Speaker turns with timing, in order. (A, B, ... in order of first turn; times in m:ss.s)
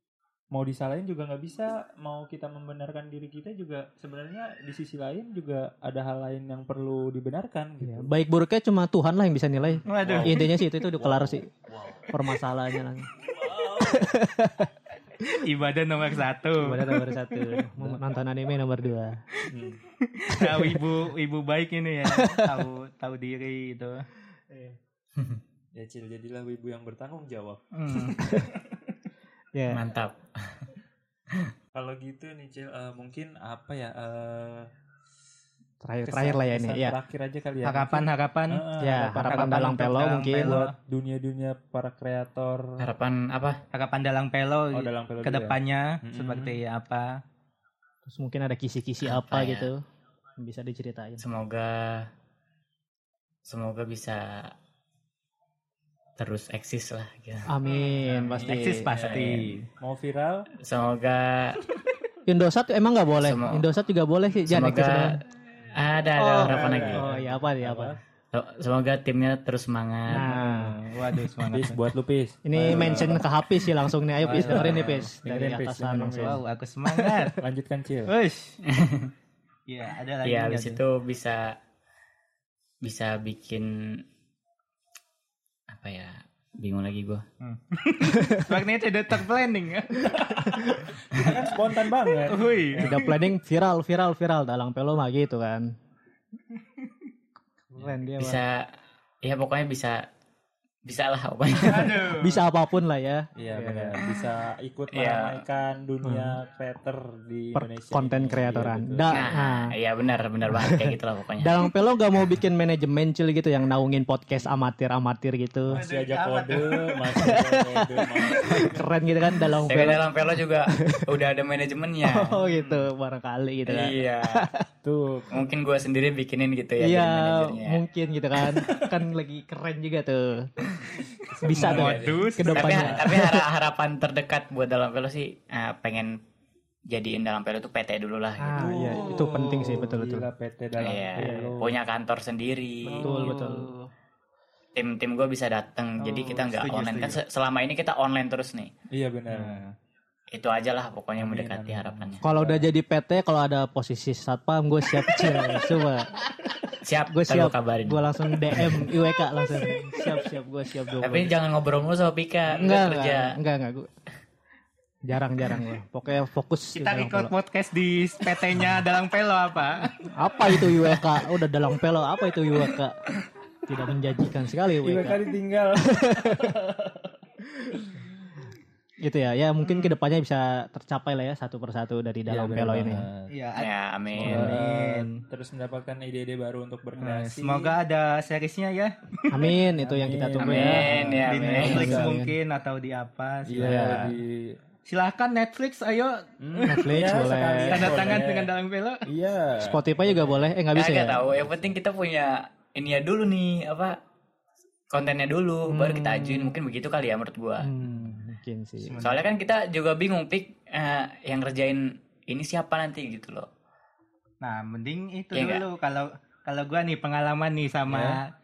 0:00.5-0:08.1 A
0:07.8-0:11.5 B
0:09.8-0:12.1 A
0:09.8-0:10.5 C
0:12.1-0:13.1 B
0:13.2-0:14.1 A
0:13.8-0:15.4 B
0:15.4-0:17.2 C
0:16.5-0:19.2 B
0:17.8-0:18.1 A
0:19.4-0:24.0 C
0:19.5-0:19.8 A
0:20.4-0:20.8 B
0:22.0-0:22.7 B
0:24.5-0:24.8 B
0:25.7-0:28.8 A
0:27.7-0:28.2 C
0:29.5-0:29.8 B
0:29.7-0:30.7 D
0:31.7-0:34.7 A
0:35.8-0:37.0 B
0:36.0-0:39.7 A
0:37.6-0:38.6 C
0:38.8-0:40.6 B
0:39.2-0:40.7 C
0:40.4-0:42.8 A
0:42.8-0:43.6 D
0:43.7-0:47.2 C
0:44.7-0:46.6 A
0:48.0-0:49.8 B
0:49.0-0:49.7 D
0:50.4-0:51.2 B
0:51.2-0:52.1 D
0:53.4-0:54.5 D
0:56.2-0:57.5 D
0:57.5-0:58.9 B
0:57.9-0:59.7 C
0:58.0-0:59.2 A
0:58.9-0:59.6 D
0:59.8-1:00.5 A
1:00.6-1:01.6 D
1:02.2-1:05.2 B
1:03.2-1:03.6 D
1:04.5-1:07.0 D
1:06.2-1:07.9 B
1:06.4-1:08.0 A
1:08.3-1:10.3 D
1:10.1-1:10.8 B
1:10.3-1:10.5 A
1:10.3-1:11.8 C
1:11.5-1:13.2 A
1:12.4-1:16.4 B
1:12.6-1:13.2 C
1:14.2-1:16.4 A
1:14.2-1:15.1 C
1:16.1-1:17.4 C
1:17.3-1:18.1 A
1:18.1-1:18.6 C
1:18.7-1:19.1 D
1:19.7-1:20.8 C
1:20.2-1:21.6 D
1:22.8-1:24.0 D
1:25.7-1:27.2 D
1:27.4-1:30.6 C
1:28.1-1:28.4 B
1:30.1-1:33.0 A
1:32.2-1:33.2 C
1:32.8-1:35.7 B
1:36.5-1:36.9 C
1:37.7-1:38.4 B
1:37.7-1:38.0 A
1:38.2-1:38.6 D
1:39.2-1:40.0 D
1:40.8-1:42.0 D
1:41.6-1:42.4 C
1:41.8-1:44.0 B
1:43.4-1:49.2 A
1:44.9-1:45.4 D
1:46.0-1:46.4 B
1:47.5-1:49.7 B
1:49.1-1:51.7 D
1:50.5-1:55.8 B
1:55.7-1:57.0 C
1:55.7-1:58.8 A
1:57.2-2:00.1 B
1:59.6-2:02.4 D
2:00.7-2:01.1 B
2:02.0-2:04.6 B
2:03.6-2:04.5 D
2:04.8-2:05.4 A
2:05.3-2:07.8 D
2:06.8-2:10.5 B
2:08.6-2:08.9 A
2:11.0-2:13.0 A
2:11.4-2:13.4 B
2:11.5-2:12.8 C
2:11.6-2:16.2 D
2:16.9-2:18.8 D
2:18.4-2:20.3 B
2:18.6-2:21.8 A
2:18.8-2:19.7 C
2:20.8-2:23.4 D
2:21.2-2:21.6 B
2:22.8-2:23.9 C
2:22.9-2:23.7 B
2:24.7-2:28.7 D
2:26.0-2:27.2 C
2:28.9-2:29.6 A
2:29.3-2:29.7 C
2:30.3-2:32.2 D
2:31.2-2:32.6 A
2:32.2-2:36.2 B
2:36.8-2:38.7 D
2:37.1-2:41.4 B
2:41.0-2:43.4 D
2:42.6-2:43.9 B
2:45.0-2:47.3 B
2:46.7-2:51.0 C
2:50.1-2:53.0 B
2:53.7-2:55.2 B
2:54.8-2:57.2 A
2:55.9-2:56.5 B
2:57.7-2:58.0 A
2:59.0-3:03.0 B
2:59.6-2:59.9 C
3:02.3-3:03.3 A
3:03.3-3:03.7 C
3:03.5-3:04.5 D
3:04.2-3:07.8 A
3:04.2-3:05.2 C
3:07.0-3:09.6 C
3:09.3-3:12.4 B
3:09.8-3:12.2 A
3:10.4-3:11.9 D
3:11.2-3:14.0 C
3:13.5-3:14.6 A
3:13.6-3:14.1 B
3:14.8-3:16.8 C
3:16.4-3:18.5 A
3:16.6-3:18.2 B
3:17.7-3:19.0 C
3:19.0-3:20.4 A
3:19.6-3:21.3 B
3:20.7-3:24.0 D
3:21.3-3:21.7 A
3:24.9-3:27.7 D
3:25.6-3:26.5 B
3:27.6-3:29.0 B
3:28.8-3:29.2 C
3:29.0-3:33.5 D
3:34.4-3:38.3 C
3:35.3-3:35.6 D
3:37.9-3:38.2 A